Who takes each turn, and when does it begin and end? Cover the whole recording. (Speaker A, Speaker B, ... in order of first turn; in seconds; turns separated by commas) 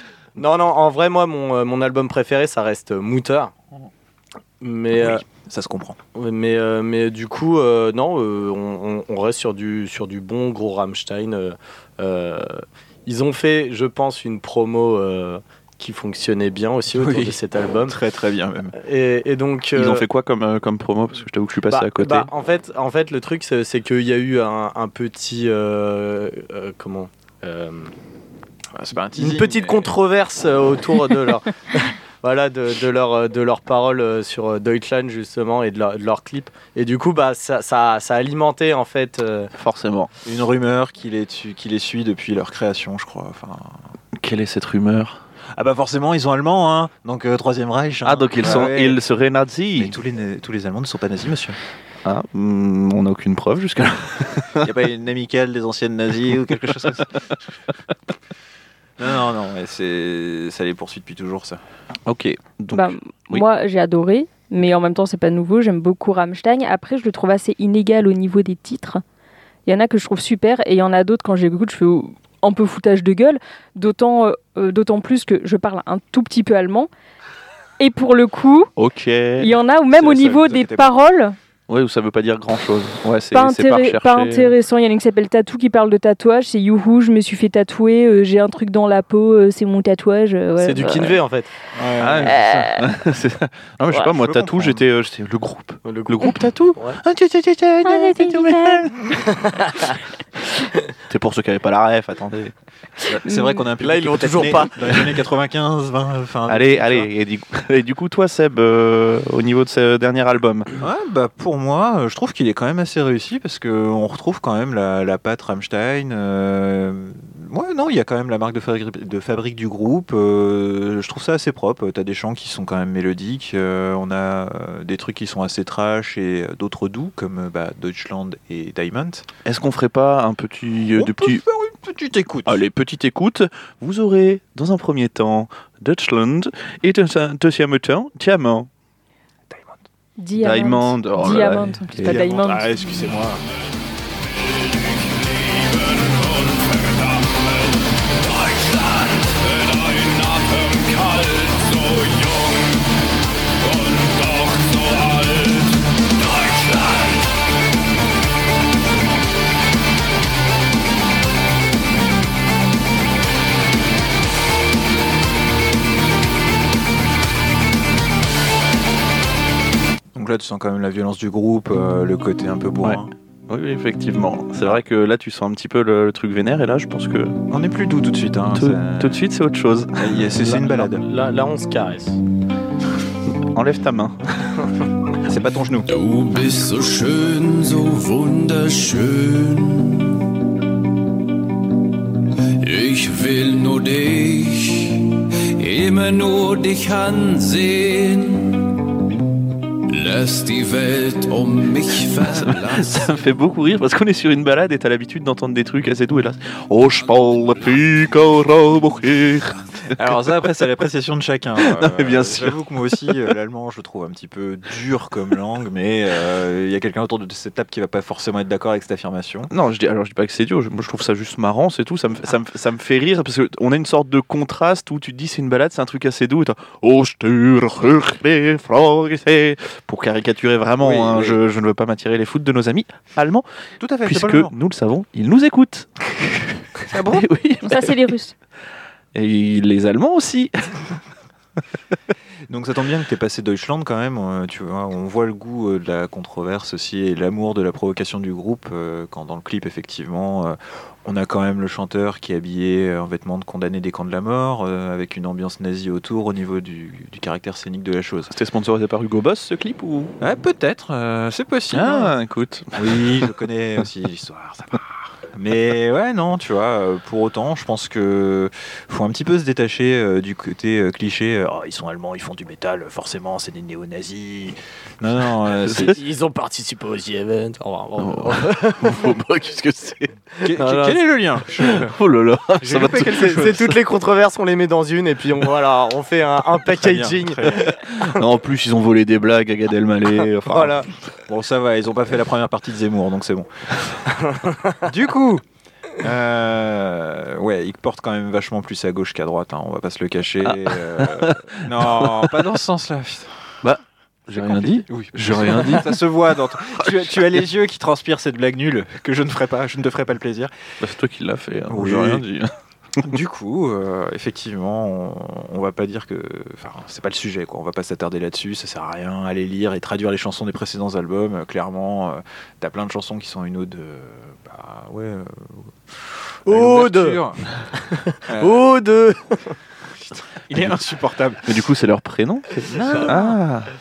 Speaker A: 0.4-3.5, Speaker A: 4.6-5.2, Speaker B: 4.9-6.0, Speaker A: 6.1-18.0, Speaker B: 16.9-18.8, Speaker A: 18.8-20.1, Speaker C: 19.8-22.3, Speaker A: 21.7-27.9, Speaker B: 28.8-29.9, Speaker A: 29.2-39.5, Speaker C: 39.6-40.1, Speaker B: 40.2-43.8, Speaker C: 44.1-45.2, Speaker B: 45.6-49.0, Speaker C: 48.0-50.0, Speaker B: 49.8-51.6, Speaker C: 52.0-54.7, Speaker B: 54.6-57.3, Speaker C: 56.7-57.0, Speaker B: 59.0-61.6, Speaker C: 62.1-63.5, Speaker D: 62.7-69.0, Speaker D: 69.7-76.9, Speaker D: 77.8-78.7, Speaker C: 78.8-79.5, Speaker D: 79.4-81.4, Speaker B: 80.0-80.9, Speaker C: 81.7-84.5, Speaker D: 83.3-91.2, Speaker A: 90.6-91.5, Speaker B: 91.8-92.7, Speaker C: 92.0-99.0, Speaker D: 92.2-92.8, Speaker B: 94.2-94.8, Speaker A: 95.8-97.0, Speaker D: 97.8-99.0, Speaker A: 99.2-99.9, Speaker C: 101.1-102.5, Speaker B: 103.1-107.1, Speaker A: 103.8-105.1, Speaker C: 106.5-110.7, Speaker B: 110.8-129.3, Speaker C: 129.4-131.4, Speaker B: 131.0-132.6, Speaker C: 132.5-138.7, Speaker B: 139.5-139.8, Speaker D: 140.2-142.8, Speaker C: 140.4-142.2, Speaker B: 142.0-143.4, Speaker E: 144.5-152.9, Speaker E: 153.6-157.3, Speaker B: 170.2-173.1, Speaker C: 172.8-177.4, Speaker B: 177.5-179.2, Speaker C: 178.5-180.2, Speaker B: 180.0-181.0, Speaker A: 180.3-182.2, Speaker C: 183.4-184.3, Speaker B: 185.2-185.9, Speaker E: 185.9-190.2, Speaker E: 192.6-198.8, Speaker E: 199.9-203.0, Speaker C: 202.1-210.2, Speaker B: 209.9-219.5, Speaker C: 211.6-213.2, Speaker C: 219.5-233.5, Speaker B: 230.8-231.4, Speaker B: 233.8-234.5, Speaker C: 234.0-238.1, Speaker B: 236.9-237.2, Speaker D: 237.6-238.3, Speaker C: 239.1-240.9, Speaker B: 242.5-258.3, Speaker C: 258.3-260.1, Speaker B: 260.2-262.1, Speaker C: 261.7-263.3, Speaker B: 262.7-276.0, Speaker C: 275.6-276.0, Speaker A: 275.8-279.1, Speaker C: 278.0-280.1, Speaker B: 280.4-281.9, Speaker A: 280.5-281.1, Speaker C: 281.6-283.8, Speaker A: 282.6-287.8, Speaker B: 282.7-283.7, Speaker B: 286.8-287.7, Speaker C: 287.7-290.9, Speaker A: 290.5-290.9, Speaker B: 291.3-293.5, Speaker A: 294.3-294.8, Speaker B: 294.8-295.4, Speaker B: 296.0-303.5, Speaker C: 300.4-302.4, Speaker C: 303.6-307.4, Speaker B: 304.3-310.5, Speaker C: 310.8-312.5, Speaker B: 311.7-312.2, Speaker B: 313.0-327.4, Speaker A: 326.5-327.2, Speaker A: 327.8-329.6, Speaker B: 328.3-328.6, Speaker B: 330.5-331.5, Speaker C: 331.4-333.7, Speaker B: 332.9-333.4